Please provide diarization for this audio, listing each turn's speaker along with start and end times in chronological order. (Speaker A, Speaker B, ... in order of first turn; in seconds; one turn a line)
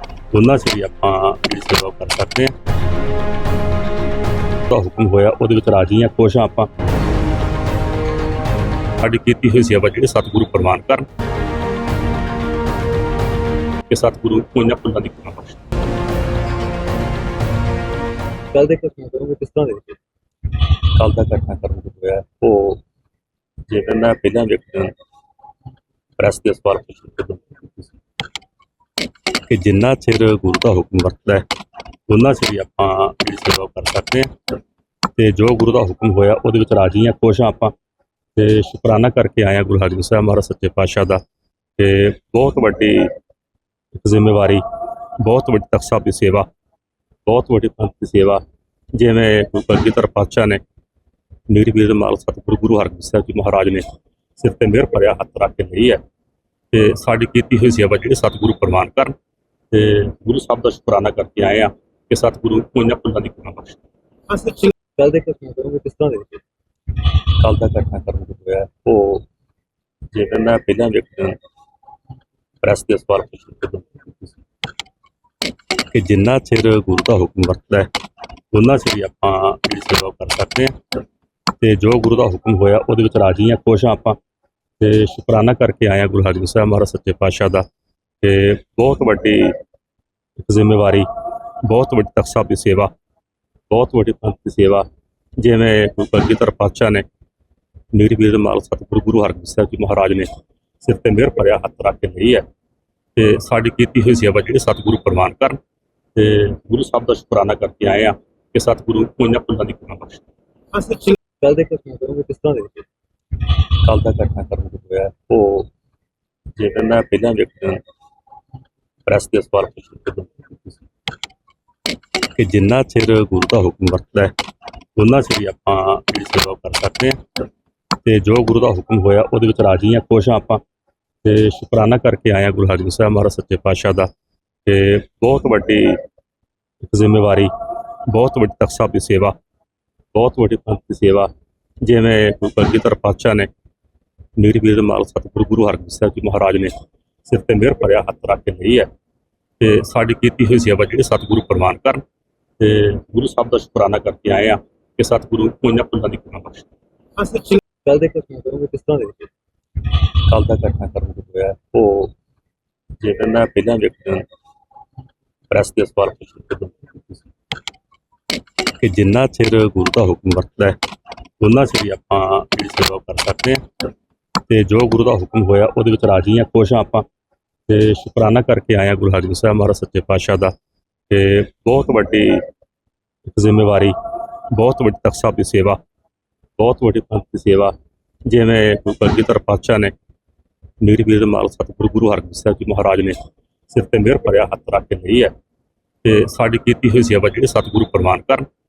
Speaker A: 0.3-2.5
Speaker A: 4.7-6.7
Speaker A: 9.0-11.1
Speaker A: 13.9-15.6
Speaker B: 18.5-20.0
Speaker A: 20.9-22.8
Speaker A: 23.7-24.9
Speaker A: 26.2-27.8
Speaker A: 29.5-31.5
Speaker A: 32.1-34.3
Speaker A: 35.1-37.7
Speaker A: 38.4-41.2
Speaker A: 41.8-43.1
Speaker A: 44.0-44.6
Speaker A: 45.2-46.5
Speaker A: 47.2-48.4
Speaker A: 48.9-50.6
Speaker A: 51.5-53.9
Speaker A: 54.4-56.0
Speaker A: 56.7-59.1
Speaker A: 59.7-63.8
Speaker B: 64.3-66.4
Speaker A: 67.4-69.2
Speaker A: 70.1-71.4
Speaker A: 72.6-74.3
Speaker A: 75.9-77.9
Speaker A: 78.5-80.8
Speaker A: 81.6-84.2
Speaker A: 84.8-87.7
Speaker A: 88.2-89.6
Speaker A: 90.4-91.1
Speaker A: 91.6-92.9
Speaker A: 93.7-94.9
Speaker A: 95.4-97.0
Speaker A: 97.9-102.5
Speaker A: 103.2-105.6
Speaker A: 106.1-110.2
Speaker B: 110.8-112.8
Speaker A: 113.8-115.7
Speaker A: 116.5-117.8
Speaker A: 119.1-120.7
Speaker A: 122.3-124.3
Speaker A: 125.0-127.2
Speaker A: 128.0-130.6
Speaker A: 131.2-134.1
Speaker A: 134.7-136.0
Speaker A: 136.8-137.5
Speaker A: 138.1-139.3
Speaker A: 140.1-141.3
Speaker A: 141.8-143.5
Speaker A: 144.4-148.9
Speaker A: 149.6-152.0
Speaker A: 152.6-156.7
Speaker B: 157.2-159.3
Speaker A: 160.3-162.1
Speaker A: 163.0-164.3
Speaker A: 165.5-167.0
Speaker A: 168.8-170.8
Speaker A: 171.4-173.6
Speaker A: 174.5-177.1
Speaker A: 177.7-180.5
Speaker A: 181.1-182.5
Speaker A: 183.3-183.9
Speaker A: 184.5-185.8
Speaker A: 186.6-187.7
Speaker A: 188.3-189.9
Speaker A: 190.8-195.3
Speaker A: 196.0-198.5